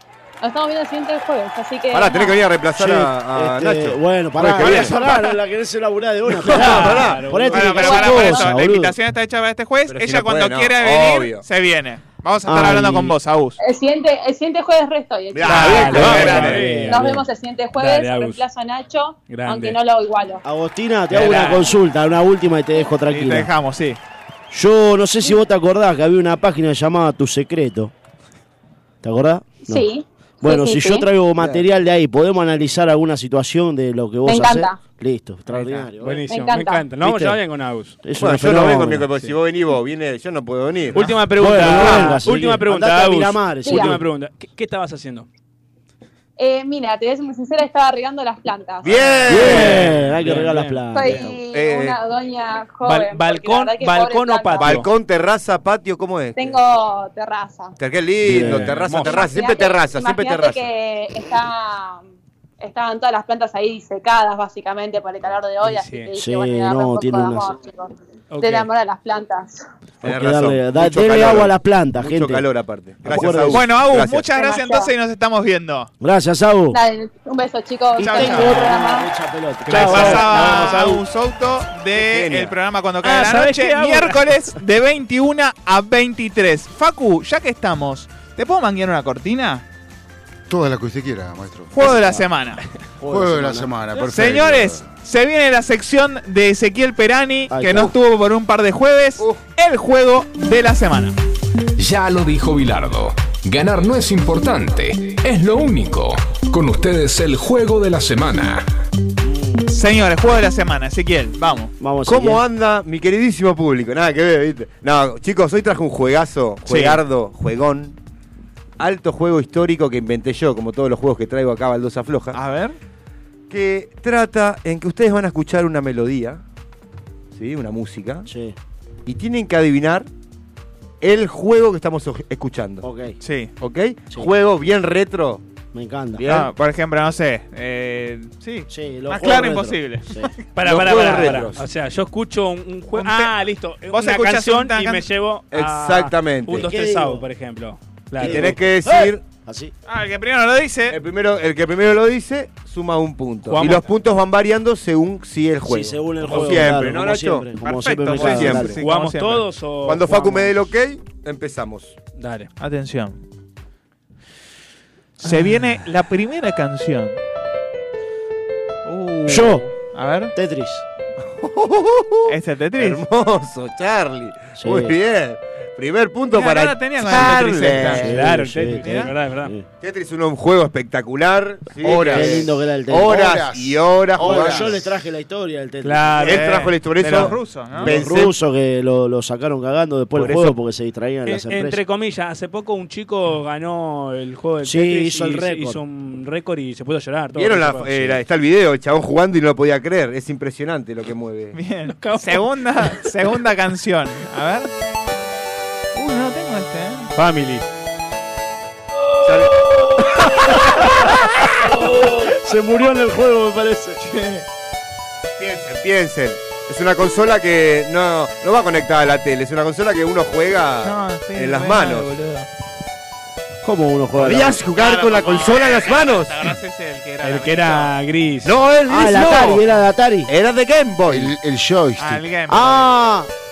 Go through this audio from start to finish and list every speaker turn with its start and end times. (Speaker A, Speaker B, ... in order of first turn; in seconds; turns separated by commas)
Speaker A: 0.4-2.4, Speaker B: 1.9-5.2, Speaker C: 2.8-8.9, Speaker D: 4.6-5.0, Speaker B: 6.4-7.3, Speaker E: 6.4-8.1, Speaker D: 7.5-13.6, Speaker A: 7.7-8.6, Speaker B: 9.9-11.4, Speaker C: 12.5-13.2, Speaker A: 13.6-16.0, Speaker B: 15.3-16.7, Speaker E: 15.5-17.1, Speaker D: 15.5-16.5, Speaker C: 15.9-17.2, Speaker A: 16.9-20.4, Speaker E: 17.8-18.4, Speaker E: 19.3-19.8, Speaker C: 20.4-23.5, Speaker E: 21.1-21.8, Speaker D: 23.1-24.0, Speaker C: 24.5-27.9, Speaker C: 29.0-29.9, Speaker A: 29.6-31.1, Speaker C: 30.4-36.2, Speaker B: 31.4-31.6, Speaker A: 34.3-34.8, Speaker E: 35.5-38.0, Speaker A: 36.3-36.9, Speaker C: 37.0-37.4, Speaker C: 38.0-39.1, Speaker B: 38.2-41.1, Speaker E: 40.9-45.3, Speaker C: 41.4-44.0, Speaker B: 41.6-42.1, Speaker A: 43.6-43.9, Speaker A: 46.4-49.6, Speaker B: 48.8-49.9, Speaker C: 49.3-51.4, Speaker E: 49.3-51.3, Speaker A: 50.9-54.8, Speaker B: 51.5-52.0, Speaker E: 52.8-54.9, Speaker B: 54.6-56.6, Speaker A: 56.4-57.8, Speaker B: 57.8-60.7, Speaker C: 58.2-58.9, Speaker E: 58.3-59.3, Speaker A: 59.0-62.0, Speaker A: 62.6-69.7, Speaker E: 65.6-66.1, Speaker C: 66.2-67.5, Speaker E: 68.3-68.7, Speaker C: 70.0-72.4, Speaker B: 70.0-74.3, Speaker C: 73.0-73.6, Speaker D: 73.5-75.9, Speaker A: 74.3-74.9, Speaker C: 76.0-76.8, Speaker A: 76.7-79.1, Speaker C: 78.0-80.8, Speaker D: 78.0-78.7, Speaker E: 78.3-78.6, Speaker E: 79.7-81.0, Speaker D: 79.7-89.6, Speaker B: 82.0-82.5, Speaker E: 83.0-84.3, Speaker F: 90.5-92.1, Speaker D: 91.7-92.6, Speaker C: 93.0-93.7, Speaker F: 93.0-94.8, Speaker D: 94.0-101.2, Speaker C: 97.5-98.0, Speaker G: 101.8-108.7, Speaker C: 109.2-109.6, Speaker D: 109.7-111.7, Speaker C: 111.8-112.4, Speaker B: 112.1-118.0, Speaker D: 116.7-117.0, Speaker B: 118.8-122.4, Speaker D: 122.3-122.8, Speaker B: 123.5-126.4, Speaker B: 127.3-128.3, Speaker C: 128.3-128.6, Speaker B: 129.1-130.1, Speaker B: 131.0-132.9, Speaker C: 132.8-133.2, Speaker D: 133.2-133.5, Speaker B: 133.6-135.4, Speaker C: 135.7-136.3, Speaker B: 136.2-136.5, Speaker D: 136.3-140.3, Speaker C: 138.7-140.3, Speaker E: 140.6-148.5, Speaker B: 140.6-141.6, Speaker C: 140.9-141.4, Speaker D: 142.9-143.3, Speaker D: 143.9-145.1, Speaker B: 145.5-146.7, Speaker C: 146.6-147.2, Speaker C: 148.2-149.7, Speaker B: 148.2-149.2, Speaker D: 149.9-151.0, Speaker B: 150.9-157.5, Speaker E: 153.5-153.9, Speaker C: 155.7-158.8, Speaker D: 157.6-159.4, Speaker B: 158.2-158.8, Speaker E: 158.2-160.6, Speaker B: 159.8-162.0, Speaker E: 162.2-162.5, Speaker D: 162.6-163.2, Speaker D: 165.2-167.2, Speaker D: 168.8-170.3, Speaker C: 169.3-169.7, Speaker C: 170.3-170.8, Speaker B: 171.3-178.2, Speaker D: 172.3-173.0, Speaker C: 174.6-174.9, Speaker D: 176.3-178.2, Speaker E: 178.0-179.5, Speaker C: 178.0-179.7, Speaker D: 178.8-179.1, Speaker B: 179.8-184.9, Speaker F: 181.8-184.8, Speaker C: 181.9-183.3, Speaker C: 184.2-186.3, Speaker E: 185.8-186.5, Speaker B: 186.2-188.4, Speaker D: 186.3-187.9, Speaker C: 187.8-191.8, Speaker B: 190.2-190.6, Speaker E: 191.2-198.2, Speaker C: 194.6-195.8, Speaker B: 197.3-201.6, Speaker D: 201.6-204.7, Speaker E: 201.9-202.5, Speaker D: 205.9-207.1, Speaker E: 207.2-207.6, Speaker B: 209.2-209.5, Speaker C: 211.0-214.0, Speaker D: 214.0-214.4, Speaker B: 215.4-222.1, Speaker D: 220.8-222.5, Speaker C: 223.6-224.6, Speaker B: 224.2-226.5, Speaker D: 224.7-227.9, Speaker E: 227.2-228.6, Speaker B: 228.4-229.7, Speaker C: 228.9-230.3, Speaker B: 230.3-231.3, Speaker F: 231.1-232.2, Speaker D: 232.0-232.9, Speaker C: 232.5-233.3